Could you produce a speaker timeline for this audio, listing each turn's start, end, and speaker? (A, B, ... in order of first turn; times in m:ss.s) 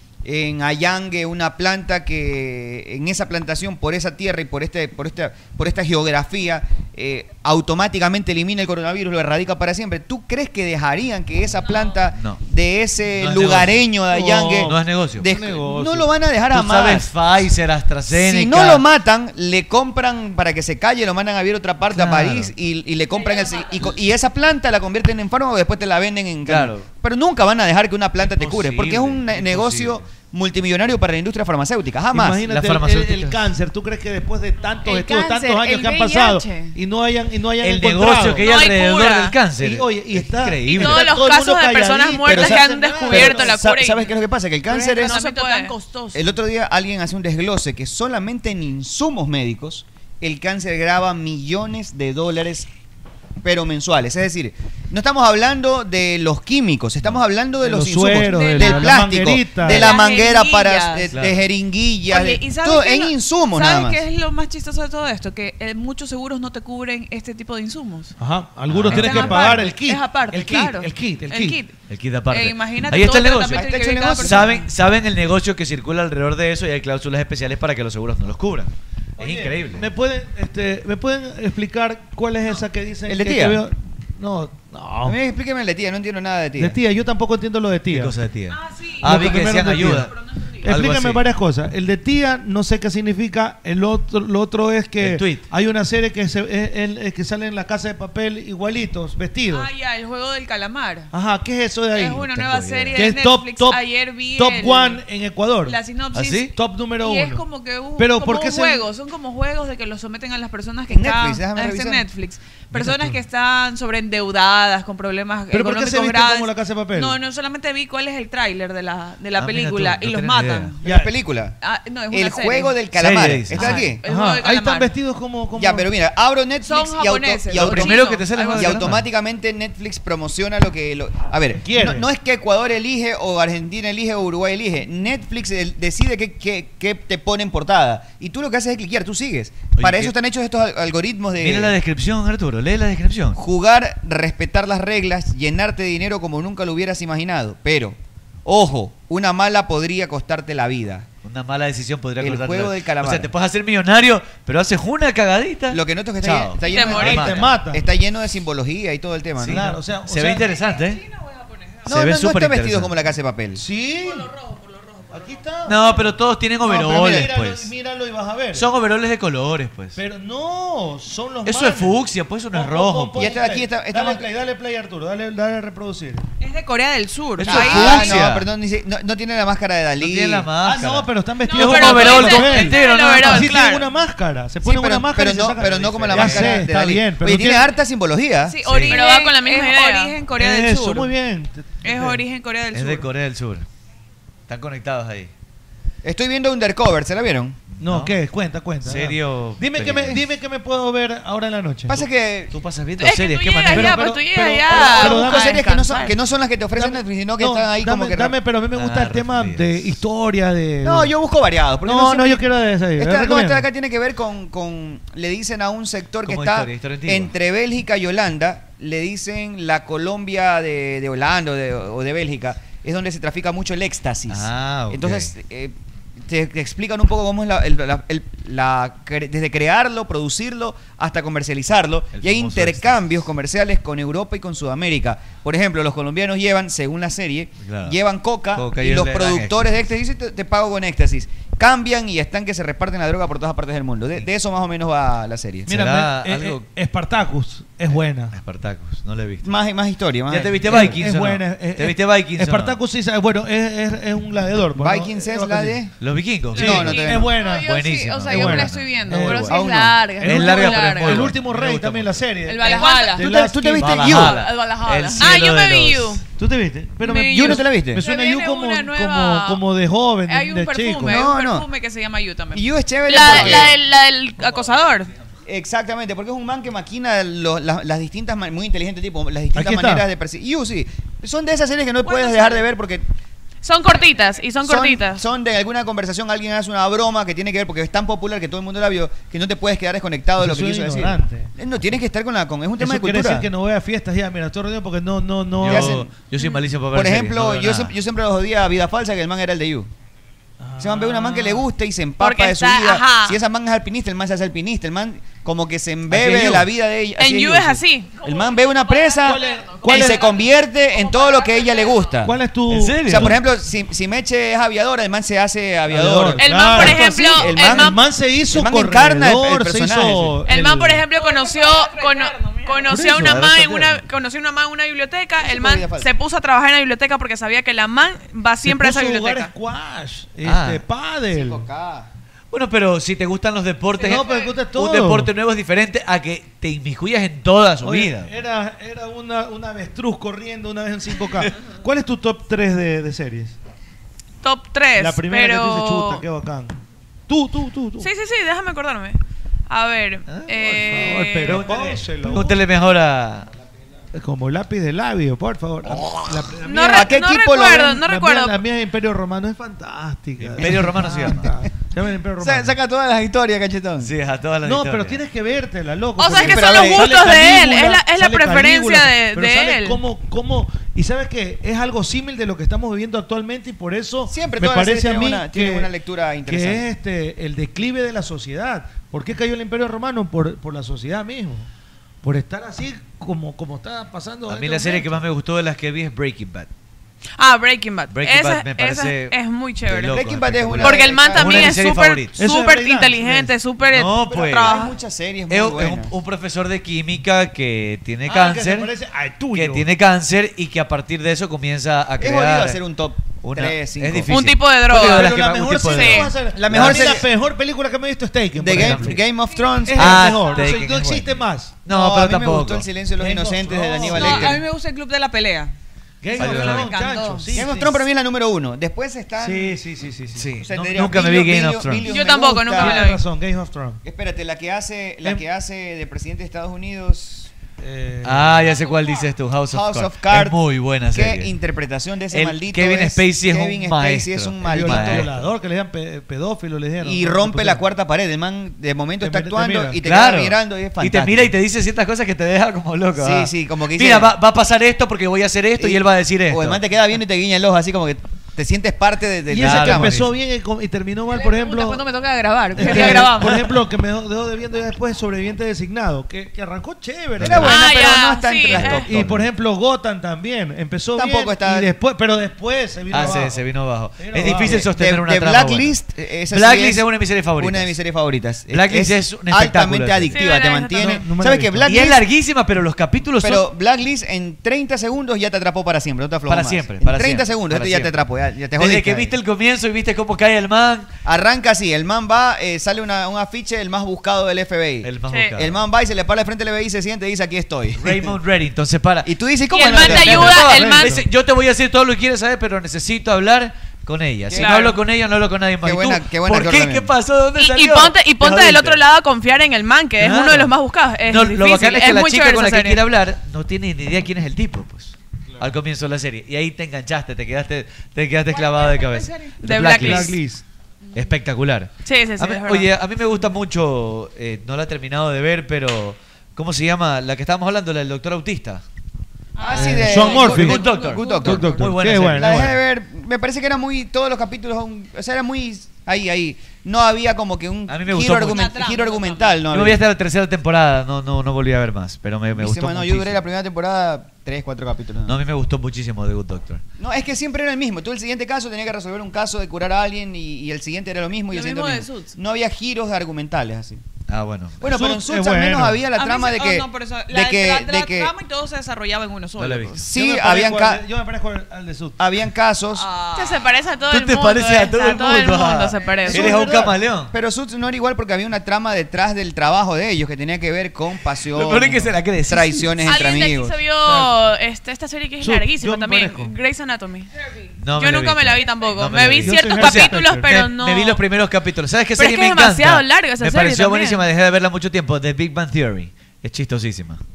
0:00.2-0:17.1 A
0:12.1-0:12.4 B
0:13.2-0:13.9 B
0:14.1-0:16.1 C
0:14.5-0:15.3 B
0:16.5-0:18.8 B
0:18.1-0:32.4 A
0:21.9-0:22.5 B
0:23.1-0:23.9 D
0:26.4-0:26.9 B
0:28.2-0:30.1 B
0:32.1-0:38.5 C
0:32.4-0:33.5 B
0:34.8-0:36.7 D
0:36.0-0:36.4 E
0:37.6-0:41.0 B
0:38.3-0:39.4 E
0:39.5-0:43.5 C
0:40.7-0:44.1 E
0:42.2-0:45.2 A
0:44.7-0:46.2 D
0:44.9-0:45.7 E
0:46.1-0:52.7 A
0:53.4-1:04.0 A
0:57.6-0:59.9 C
0:58.2-0:59.0 D
0:59.6-1:01.1 D
1:01.1-1:01.4 B
1:02.1-1:08.1 D
1:08.2-1:11.6 C
1:08.7-1:09.6 B
1:08.9-1:11.7 D
1:11.9-1:13.6 B
1:12.3-1:14.7 D
1:13.5-1:14.5 A
1:14.2-1:19.9 B
1:19.2-1:25.2 C
1:23.0-1:23.6 A
1:25.0-1:26.8 A
1:26.6-1:28.1 C
1:27.9-1:30.1 B
1:28.5-1:30.7 D
1:29.0-1:30.1 C
1:30.6-1:39.7 C
1:30.7-1:31.2 B
1:35.0-1:35.4 B
1:39.5-1:41.1 D
1:41.1-1:42.3 C
1:41.9-1:45.0 D
1:42.3-1:43.0 B
1:42.9-1:45.8 C
1:45.6-2:00.8 D
1:46.1-1:46.5 B
1:46.5-1:47.4 C
1:48.0-1:48.8 C
1:50.9-1:52.0 A
1:52.7-1:53.1 B
1:55.5-1:57.2 C
1:59.4-2:00.7 B
2:00.8-2:01.6 A
2:00.8-2:01.1 C
2:01.6-2:02.8 D
2:02.1-2:04.0 A
2:02.9-2:03.9 B
2:03.5-2:04.9 D
2:04.0-2:05.9 C
2:05.5-2:21.8 A
2:06.6-2:08.9 D
2:07.5-2:09.1 B
2:11.6-2:12.0 C
2:19.7-2:20.1 B
2:21.4-2:23.4 B
2:23.3-2:31.1 A
2:31.2-2:37.5 B
2:32.2-2:33.3 A
2:35.7-2:39.6 A
2:36.6-2:37.2 D
2:36.7-2:36.9 E
2:36.9-2:37.8 C
2:39.4-2:41.0 B
2:39.4-2:40.5 C
2:40.4-2:41.9 D
2:41.8-2:43.6 A
2:41.9-2:43.0 B
2:43.5-2:44.3 C
2:44.0-2:45.9 D
2:45.1-2:46.0 C
2:45.6-2:47.7 B
2:46.6-2:48.6 C
2:46.8-2:47.3 A
2:48.5-2:50.0 B
2:50.0-2:52.0 C
2:51.4-2:53.3 B
2:52.5-2:56.2 C
2:53.1-2:54.3 A
2:56.4-2:58.2 D
2:57.4-2:58.5 B
2:57.4-3:00.5 A
3:00.0-3:03.5 B
3:00.6-3:07.7 C
3:01.5-3:03.8 E
3:01.5-3:03.7 D
3:04.6-3:08.6 A
3:05.7-3:06.6 B
3:08.4-3:11.1 D
3:08.6-3:09.0 B
3:08.9-3:10.1 E
3:10.3-3:12.2 C
3:11.8-3:13.1 D
3:12.7-3:13.6 B
3:14.5-3:15.3 B
3:16.0-3:17.6 A
3:17.7-3:18.2 B
3:17.8-3:22.0 C
3:18.8-3:20.2 B
3:21.9-3:22.5 A
3:22.5-3:24.1 B
3:23.0-3:25.9 E
3:23.7-3:25.6 C
3:24.1-3:26.1 D
3:24.7-3:28.4 A
3:26.8-3:31.1 C
3:28.7-3:30.0 B
3:30.8-3:32.4 A
3:31.8-3:33.6 C
3:33.0-4:05.8 A
3:36.2-3:37.3 B
3:44.3-3:45.3 B
3:52.1-3:53.0 B
3:57.6-3:58.0 B
3:58.5-3:59.8 B
4:05.7-4:08.3 C
4:05.7-4:06.7 B
4:08.3-4:09.5 B
4:09.4-4:11.0 A
4:10.3-4:12.8 B
4:10.6-4:15.8 C
4:14.8-4:15.9 A
4:16.0-4:19.5 B
4:16.5-4:17.3 A
4:16.6-4:17.7 C
4:16.6-4:21.3 D
4:18.3-4:19.6 C
4:19.5-4:20.1 A
4:19.8-4:20.3 E
4:20.2-4:22.2 B
4:20.2-4:24.2 C
4:22.4-4:23.3 D
4:22.6-4:23.1 E
4:23.0-4:24.4 A
4:23.8-4:26.2 B
4:23.9-4:25.4 D
4:25.2-4:26.2 E
4:26.4-4:31.2 C
4:27.0-4:29.6 D
4:27.2-4:28.0 A
4:30.3-4:35.1 D
4:31.0-4:31.6 A
4:32.5-4:33.8 A
4:33.1-4:34.4 E
4:35.4-4:43.0 A
4:39.5-4:40.0 C
4:42.0-4:42.6 D
4:43.6-4:45.2 E
4:44.6-4:53.5 A
4:50.4-4:51.5 C
4:52.8-4:56.0 C
4:55.6-4:57.9 B
4:55.6-4:56.1 A
4:56.9-4:59.9 A
5:00.6-5:01.6 C
5:00.8-5:12.4 A
5:02.2-5:03.4 E
5:06.1-5:06.7 B
5:07.2-5:08.1 E
5:08.1-5:12.1 D
5:09.2-5:10.3 C
5:12.2-5:13.4 C
5:12.7-5:13.4 B
5:13.0-5:20.4 A
5:15.9-5:21.0 C
5:16.4-5:18.0 E
5:20.4-5:29.5 E
5:21.1-5:23.1 D
5:22.9-5:23.5 C
5:23.2-5:24.0 B
5:25.4-5:26.1 A
5:28.6-5:31.6 C
5:30.4-5:30.8 B
5:31.3-5:32.1 A
5:32.5-5:38.3 B
5:34.0-5:34.5 D
5:34.0-5:35.3 C
5:37.8-5:43.6 C
5:44.4-5:46.2 E
5:44.9-5:46.8 C
5:47.3-5:48.1 C
5:48.0-5:49.2 E
5:49.7-5:51.7 E
5:50.3-5:53.5 B
5:50.7-5:52.6 C
5:54.1-5:57.1 C
5:56.6-5:58.6 E
5:56.9-5:58.0 A
5:57.9-6:02.7 C
6:00.4-6:01.5 B
6:00.6-6:00.9 A
6:02.4-6:04.1 A
6:04.0-6:05.2 B
6:04.6-6:15.9 C
6:06.2-6:10.0 E
6:06.3-6:07.2 A
6:14.3-6:16.8 A
6:16.5-6:21.7 C
6:22.2-6:25.2 C
6:24.5-6:26.7 B
6:27.4-6:30.2 E
6:28.1-6:32.4 B
6:30.0-6:31.8 A
6:30.8-6:34.9 E
6:32.4-6:33.5 C
6:33.8-6:34.7 B
6:34.3-6:36.1 A
6:34.3-6:34.9 D
6:35.5-6:38.9 B
6:38.2-6:39.9 C
6:39.5-6:42.8 B
6:42.2-6:44.4 A
6:43.4-6:47.1 B
6:44.3-6:46.3 E
6:44.9-6:49.2 C
6:46.5-6:47.3 A
6:48.6-6:50.5 A
6:48.7-6:49.2 B
6:49.4-6:50.8 D
6:49.8-6:51.8 C
6:49.9-6:52.9 B
6:51.9-6:54.6 A
6:53.2-6:54.6 C
6:54.1-6:55.7 D
6:56.2-6:58.0 C
6:56.3-6:57.6 D
6:56.4-6:57.0 B
6:57.5-6:59.8 A
6:59.4-7:00.6 C
7:00.3-7:02.1 B
7:00.6-7:03.1 A
7:02.0-7:03.2 E
7:02.7-7:04.0 C
7:04.0-7:07.5 A
7:07.8-7:08.7 C
7:08.2-7:11.5 B
7:08.6-7:09.3 D
7:09.7-7:15.3 A
7:12.3-7:15.5 B
7:14.6-7:17.8 C
7:17.0-7:21.6 A
7:19.2-7:20.0 C
7:20.0-7:26.8 B
7:23.2-7:24.3 A
7:25.8-7:30.2 A
7:29.5-7:32.0 C
7:29.6-7:30.3 B
7:31.3-7:33.7 D
7:32.7-7:37.9 C
7:37.4-7:37.7 B
7:37.4-7:39.3 A
7:37.6-7:39.0 E
7:38.7-7:39.5 B
7:39.0-7:43.6 C
7:41.1-7:41.9 A
7:43.1-7:46.0 B
7:44.2-7:44.9 C
7:44.4-7:52.2 A
7:46.5-7:47.9 B
7:48.7-7:50.4 B
7:50.3-7:51.2 E
7:50.9-7:52.0 C
7:51.8-7:53.6 B
7:53.4-7:59.3 A
7:56.5-7:58.2 B
7:58.7-8:01.1 B
8:01.2-8:08.4 A
8:05.0-8:05.8 B
8:05.3-8:05.6 E
8:08.0-8:09.3 B
8:09.2-8:10.7 A
8:09.7-8:11.2 E
8:09.8-8:19.0 B
8:10.4-8:11.2 C
8:14.5-8:14.8 A
8:14.5-8:15.0 E
8:15.8-8:17.1 A
8:17.6-8:23.0 E
8:20.2-8:20.7 B
8:21.2-8:30.4 B
8:28.5-8:29.6 D
8:29.6-8:30.4 E
8:29.7-8:30.6 C
8:31.0-8:31.3 D
8:31.1-8:38.8 B
8:32.0-8:32.9 E
8:39.6-8:41.8 D
8:39.6-8:50.0 A
8:39.7-8:42.7 C
8:39.8-8:42.8 B
8:47.9-8:48.7 B
8:48.4-8:49.6 D
8:49.7-8:53.4 B
8:52.5-8:55.4 A
8:55.2-8:56.8 B
8:57.0-9:04.0 A
9:01.5-9:02.3 D
9:04.3-9:04.9 B
9:04.8-9:08.3 A
9:04.8-9:06.0 C
9:06.1-9:10.0 D
9:09.6-9:10.0 B
9:09.9-9:11.0 A
9:10.1-9:12.2 C
9:12.2-9:13.0 A
9:12.9-9:13.7 D
9:13.3-9:16.6 E
9:14.1-9:17.3 B
9:15.9-9:16.3 D
9:16.3-9:17.0 C
9:16.5-9:16.8 A
9:17.3-9:23.8 A
9:21.5-9:23.1 B
9:23.0-9:27.3 E
9:24.0-9:24.4 C
9:25.4-9:26.5 C
9:27.8-9:37.2 B
9:27.9-9:31.2 E
9:29.4-9:30.7 C
9:32.2-9:34.2 E